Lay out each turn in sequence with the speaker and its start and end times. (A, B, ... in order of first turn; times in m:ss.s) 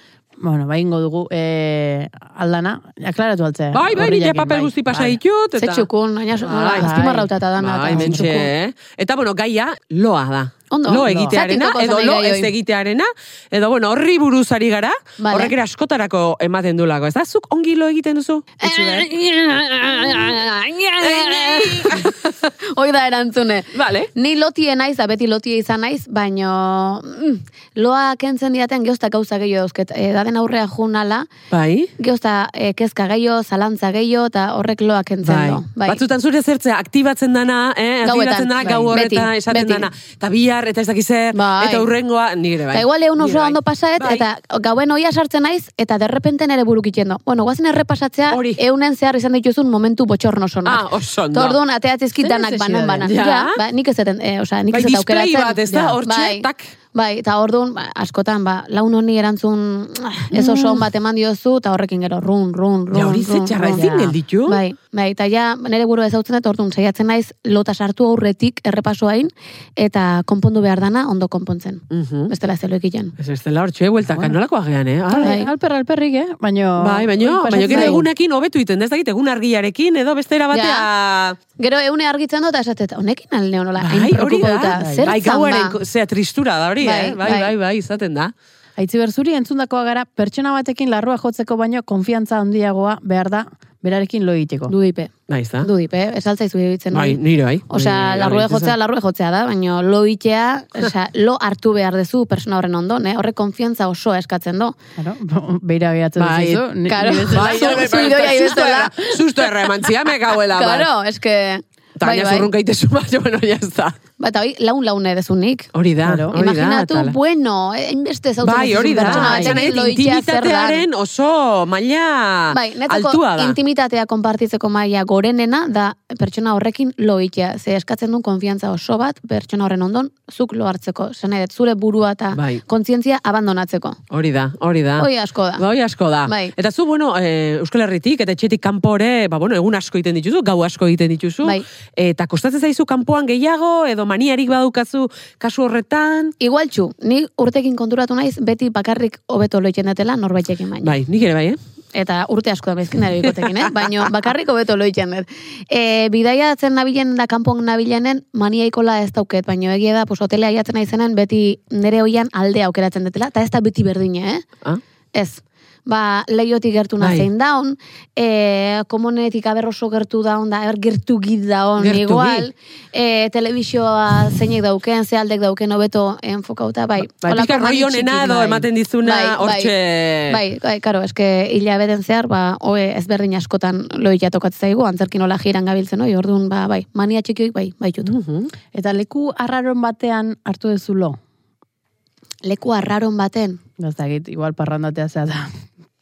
0:00.4-0:05.2 A
0:03.7-0:05.9 B
0:05.6-0:08.5 C
0:06.4-0:06.9 B
0:06.7-0:07.3 A
0:07.6-0:19.1 B
0:07.9-0:08.4 A
0:10.7-0:12.5 C
0:11.0-0:11.4 A
0:15.2-0:15.5 C
0:18.6-0:31.3 C
0:19.8-0:20.3 B
0:21.0-0:22.2 B
0:23.7-0:24.1 B
0:31.5-0:31.9 B
0:32.0-0:36.0 C
0:35.2-0:44.2 B
0:38.0-0:39.9 C
0:41.3-0:41.9 C
0:42.7-1:13.1 C
0:48.3-0:48.6 B
0:50.6-0:51.6 B
0:52.2-0:53.1 A
0:53.0-0:53.6 B
0:54.7-0:56.7 B
1:00.3-1:00.8 B
1:02.9-1:04.6 B
1:11.9-1:12.3 B
1:13.2-1:15.4 B
1:15.1-1:18.1 A
1:15.2-1:15.5 C
1:16.8-1:21.4 B
1:17.7-1:18.0 C
1:20.5-1:20.9 C
1:21.6-1:25.7 C
1:23.8-1:28.3 B
1:24.8-1:25.2 A
1:26.8-1:27.5 C
1:28.8-1:34.7 A
1:34.7-1:44.8 C
1:35.3-1:35.7 B
1:36.9-1:38.7 B
1:45.0-1:48.3 A
1:46.2-1:46.6 B
1:46.9-1:49.2 C
1:47.2-1:50.9 B
1:50.5-1:52.5 C
1:52.0-1:54.0 B
1:54.2-1:55.7 C
1:55.7-1:57.2 B
1:56.0-1:56.3 A
1:56.3-2:00.8 C
1:58.4-2:03.6 B
1:58.9-1:59.6 A
2:02.5-2:14.0 C
2:12.3-2:12.6 B
2:14.1-2:26.3 B
2:15.0-2:15.6 C
2:16.2-2:16.5 C
2:26.4-2:31.0 C
2:30.8-2:31.6 B
2:31.9-2:44.4 C
2:33.3-2:33.7 B
2:45.1-2:59.7 C
2:47.0-2:47.3 B
2:51.8-2:52.5 B
2:57.0-3:00.4 B
3:00.3-3:08.1 C
3:08.0-3:08.5 B
3:08.7-3:11.2 A
3:12.4-3:13.6 C
3:13.8-3:15.6 A